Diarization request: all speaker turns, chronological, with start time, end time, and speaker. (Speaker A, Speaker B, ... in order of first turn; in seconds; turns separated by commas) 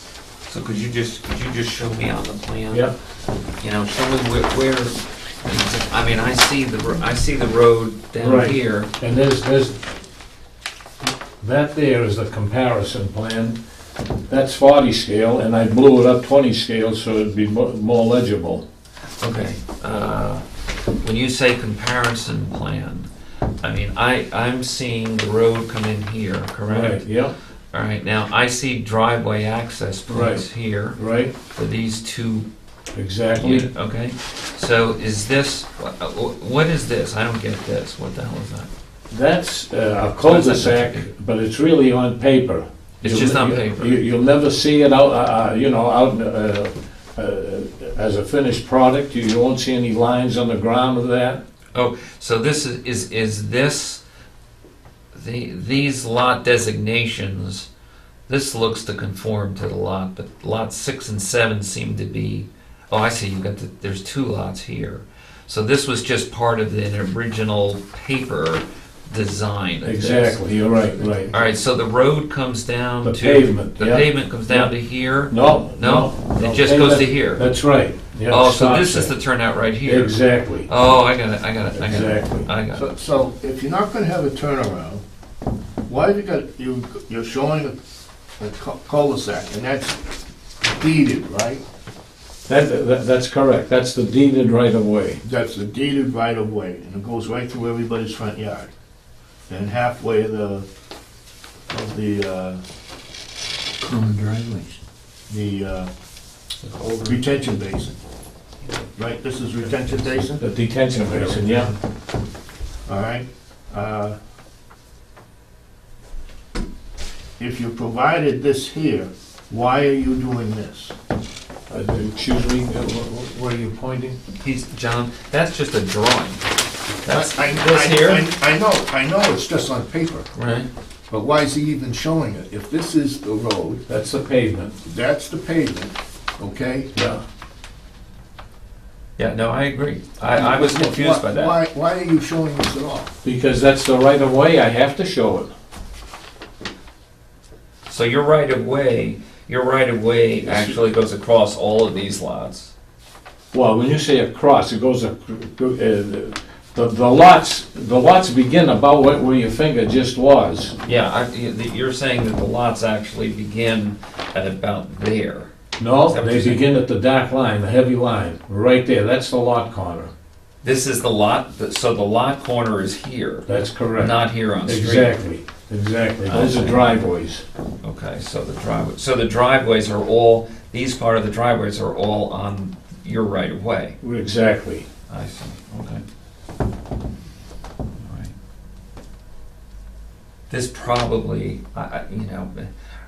Speaker A: 0.5-2.9, Speaker A: 3.6-8.9, Speaker B: 8.2-9.8, Speaker B: 11.4-13.6, Speaker B: 14.3-18.6, Speaker A: 19.2-20.4, Speaker A: 21.0-23.1, Speaker A: 23.6-27.1, Speaker B: 26.7-27.3, Speaker A: 27.7-31.0, Speaker B: 30.1-31.3, Speaker A: 31.5-32.5, Speaker B: 33.0-33.7, Speaker A: 33.4-38.7, Speaker B: 39.1-51.4, Speaker A: 40.2-41.0, Speaker A: 43.0-44.0, Speaker A: 51.7-54.0, Speaker A: 55.1-57.7, Speaker A: 58.3-70.4, Speaker B: 69.8-71.3, Speaker A: 71.3-77.5, Speaker B: 73.0-74.7, Speaker B: 75.3-79.1, Speaker A: 78.3-82.9, Speaker B: 79.8-80.7, Speaker B: 81.7-82.5, Speaker C: 82.7-85.0, Speaker C: 85.9-87.8, Speaker C: 88.4-90.0, Speaker C: 90.7-91.6, Speaker B: 92.5-95.2, Speaker C: 95.2-98.7, Speaker C: 99.5-100.7, Speaker C: 101.7-102.6, Speaker A: 103.8-104.8, Speaker C: 105.3-105.9, Speaker A: 106.6-107.2, Speaker C: 107.0-108.0, Speaker C: 109.0-110.4, Speaker B: 110.4-111.7, Speaker C: 112.9-114.2, Speaker C: 117.4-121.0, Speaker B: 121.7-124.2, Speaker A: 124.4-126.4, Speaker A: 127.0-128.3, Speaker C: 127.1-130.3, Speaker A: 130.3-130.7, Speaker C: 131.1-133.8, Speaker B: 133.9-134.8, Speaker C: 134.8-136.9, Speaker B: 136.9-137.2, Speaker A: 139.2-141.6, Speaker C: 140.3-143.1, Speaker B: 143.2-145.5, Speaker A: 147.9-152.7, Speaker B: 150.4-150.8, Speaker B: 153.5-160.8, Speaker A: 160.8-165.5, Speaker B: 165.8-170.1, Speaker A: 166.1-166.6, Speaker A: 170.6-175.1, Speaker B: 173.5-177.4, Speaker A: 176.3-177.0, Speaker A: 177.8-184.0, Speaker B: 184.0-184.9, Speaker A: 185.1-186.0, Speaker A: 188.0-188.3, Speaker A: 190.5-192.7